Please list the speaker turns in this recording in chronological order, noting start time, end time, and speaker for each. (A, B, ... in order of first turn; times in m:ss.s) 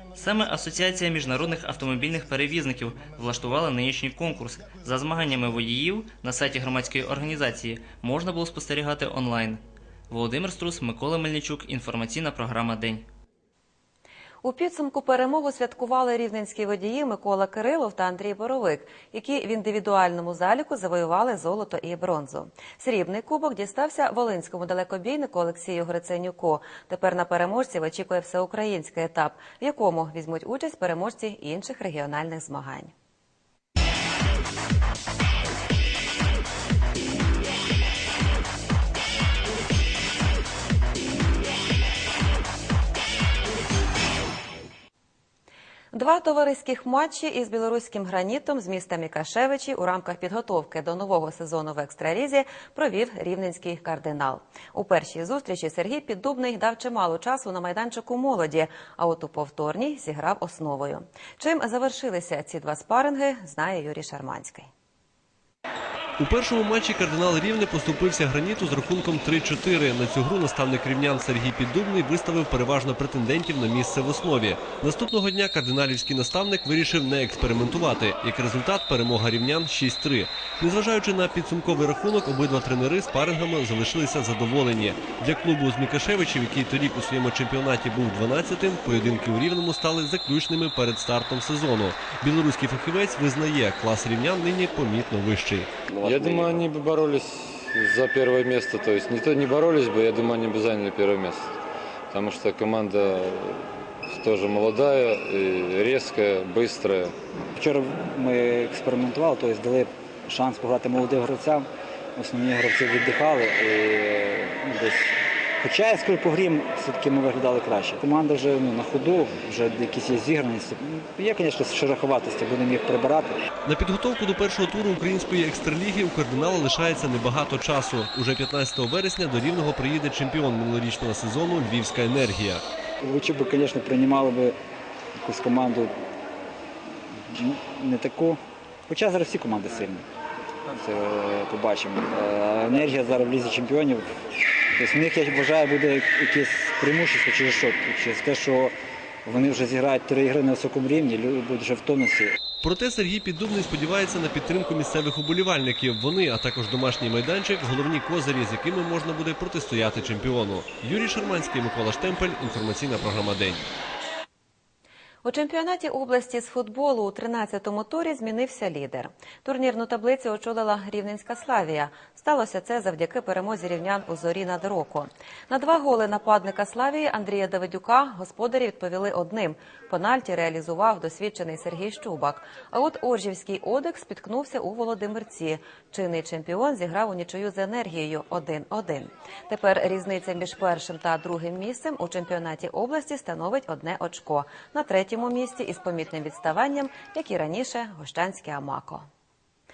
0:00.2-0:13.1 A
0:14.4-0:32.9 B
0:45.9-1:04.7 B
1:06.2-1:35.7 C
1:35.9-1:41.5 D
1:42.1-1:47.1 D
1:47.6-1:55.1 E
1:55.6-2:03.4 E
2:03.7-2:12.6 C
2:13.0-2:14.6 E
2:15.2-2:15.9 E
2:17.3-2:20.0 E
2:20.8-2:24.0 E
2:24.8-2:28.7 E
2:29.3-2:32.4 E
2:32.6-2:43.7 C
2:45.2-3:19.1 B